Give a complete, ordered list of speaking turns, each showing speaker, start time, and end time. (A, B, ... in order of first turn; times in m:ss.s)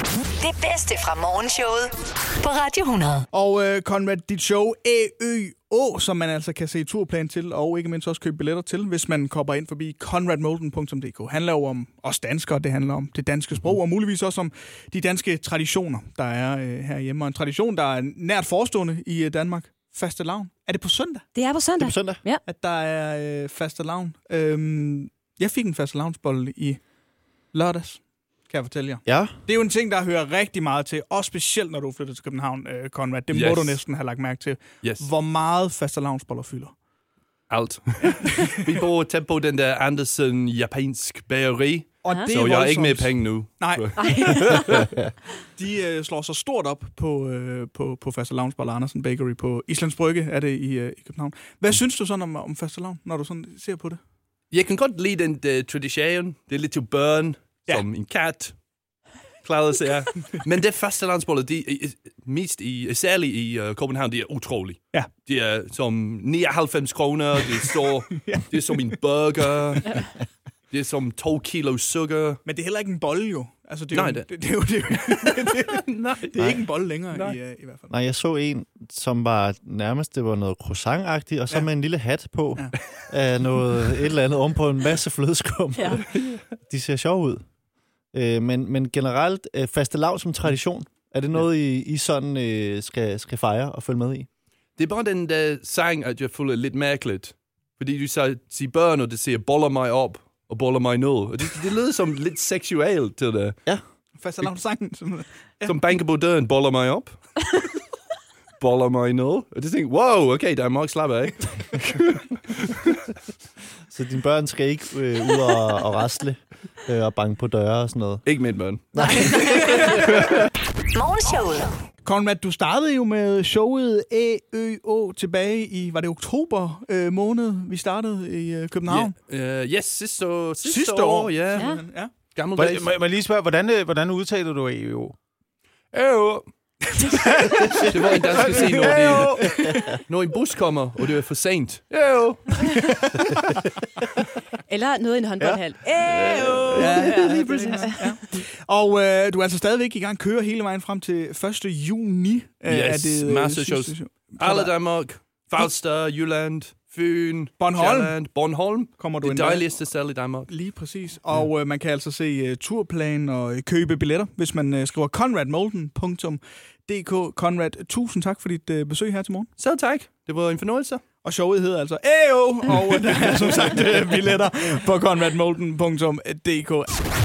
0:00.4-0:03.3 A
0:03.3-0:21.2 B
0:21.3-0:22.4 C
0:21.8-0:22.2 D
0:22.4-0:26.8 B
0:27.5-0:36.7 B
0:29.1-0:29.4 D
0:33.3-0:33.8 E
0:34.8-0:35.1 E
0:37.5-0:44.9 E
0:38.1-0:38.7 B
0:42.0-0:44.9 B
0:42.1-0:42.3 C
0:44.0-0:44.8 C
0:45.6-0:54.0 B
0:54.5-0:58.6 E
0:59.4-1:10.1 E
1:08.1-1:08.9 B
1:10.7-1:12.4 E
1:12.4-1:17.9 B
1:13.9-1:14.3 E
1:15.1-1:16.6 E
1:17.1-1:17.4 E
1:17.9-1:27.4 D
1:25.8-1:26.0 C
1:28.1-1:34.3 D
1:34.8-1:43.6 E
1:44.2-1:45.8 B
1:45.6-1:47.4 E
1:48.6-1:53.0 E
1:53.9-1:58.2 D
1:58.2-2:00.5 E
1:58.9-1:59.8 D
2:00.9-2:01.7 A
2:02.0-2:09.1 B
2:08.9-2:11.7 E
2:10.7-2:11.3 F
2:10.7-2:12.1 B
2:11.6-2:11.8 C
2:12.3-2:12.9 E
2:12.6-2:15.1 F
2:15.9-2:23.0 E
2:17.4-2:17.8 B
2:17.7-2:19.4 F
2:18.5-2:19.9 B
2:24.7-2:28.0 C
2:26.1-2:28.1 E
2:26.4-2:34.7 B
2:32.7-2:40.5 E
2:37.6-2:38.1 B
2:39.0-2:39.7 B
2:40.5-2:49.5 B
2:49.6-2:51.0 E
2:51.2-2:56.9 B